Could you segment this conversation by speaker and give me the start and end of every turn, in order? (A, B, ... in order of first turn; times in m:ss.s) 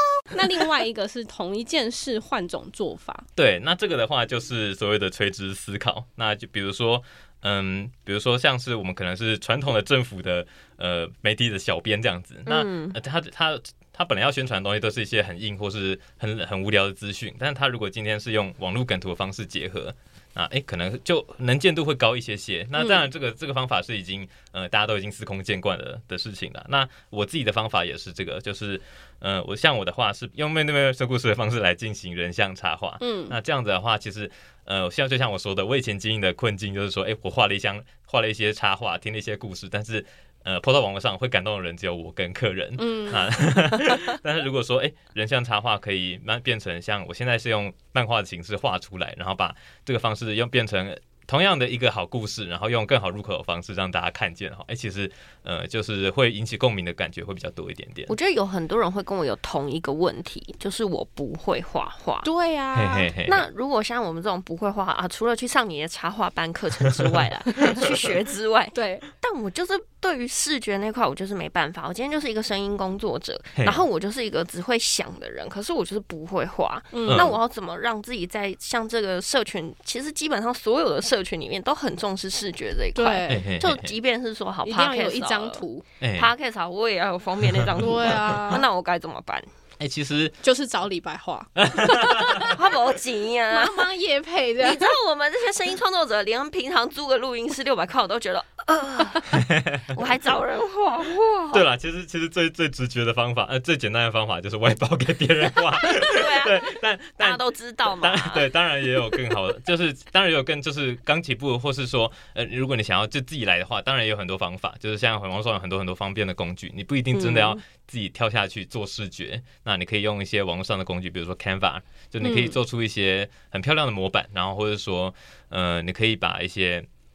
0:00.3-0:03.2 A
0:03.4-0:58.1 B
0:12.4-0:13.0 C
0:33.0-0:33.4 A
0:42.8-0:43.3 A
0:58.1-1:02.3 C
1:02.2-1:03.1 A
1:02.7-1:03.4 B
1:03.2-1:25.6 C
1:08.7-1:09.0 A
1:13.6-1:13.8 B
1:16.9-1:17.3 A
1:17.1-1:17.4 B
1:23.0-1:23.4 A
1:23.3-1:23.9 B
1:24.6-1:25.8 A
1:26.0-1:26.3 B
1:26.2-1:29.4 C
1:27.4-1:28.1 B
1:27.8-1:28.6 A
1:29.8-1:30.4 B
1:30.4-1:32.6 A
1:31.6-1:32.5 B
1:32.5-1:33.9 C
1:33.5-1:34.9 A
1:34.6-1:39.4 C
1:39.3-1:39.9 B
1:39.9-1:41.6 C
1:41.5-1:47.4 B
1:46.0-1:48.5 C
1:48.0-2:06.9 B
1:57.1-1:57.6 C
2:02.2-2:02.6 A